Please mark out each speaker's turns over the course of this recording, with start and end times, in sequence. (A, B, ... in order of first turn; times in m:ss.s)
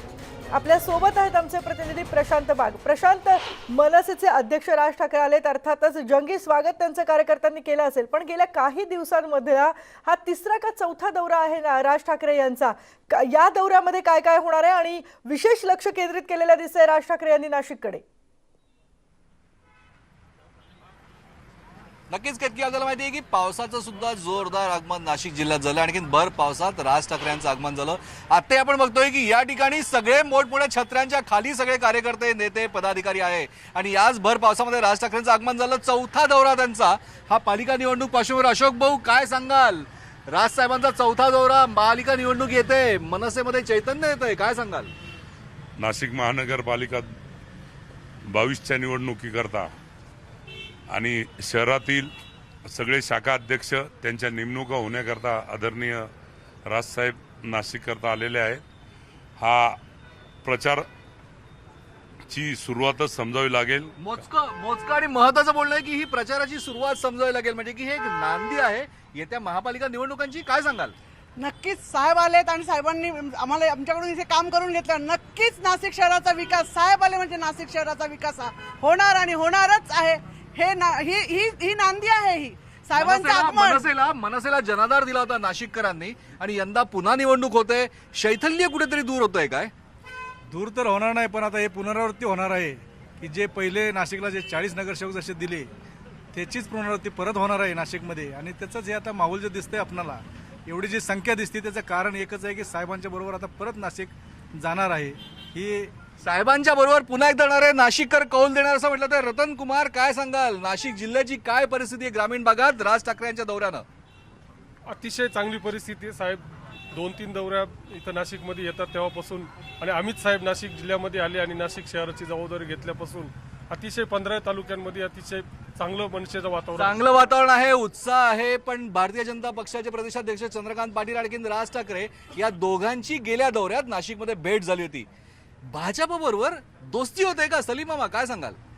0:00.5-0:18.0 A
0:22.1-0:44.9 B
0:45.8-0:47.1 C
0:48.3-0:49.7 C
0:50.9-0:52.1 C
0:52.6-0:56.1 C
0:56.7-0:58.6 C
0:59.4-0:59.8 C
1:00.4-1:00.8 C
1:02.3-1:03.9 C
1:04.0-1:10.9 B
1:11.4-1:23.8 D
1:23.0-1:29.7 B
1:30.5-1:35.7 E
1:36.3-1:45.9 E
1:46.2-1:53.8 B
1:54.9-2:06.9 F
2:06.7-2:15.1 B
2:15.6-2:18.6 B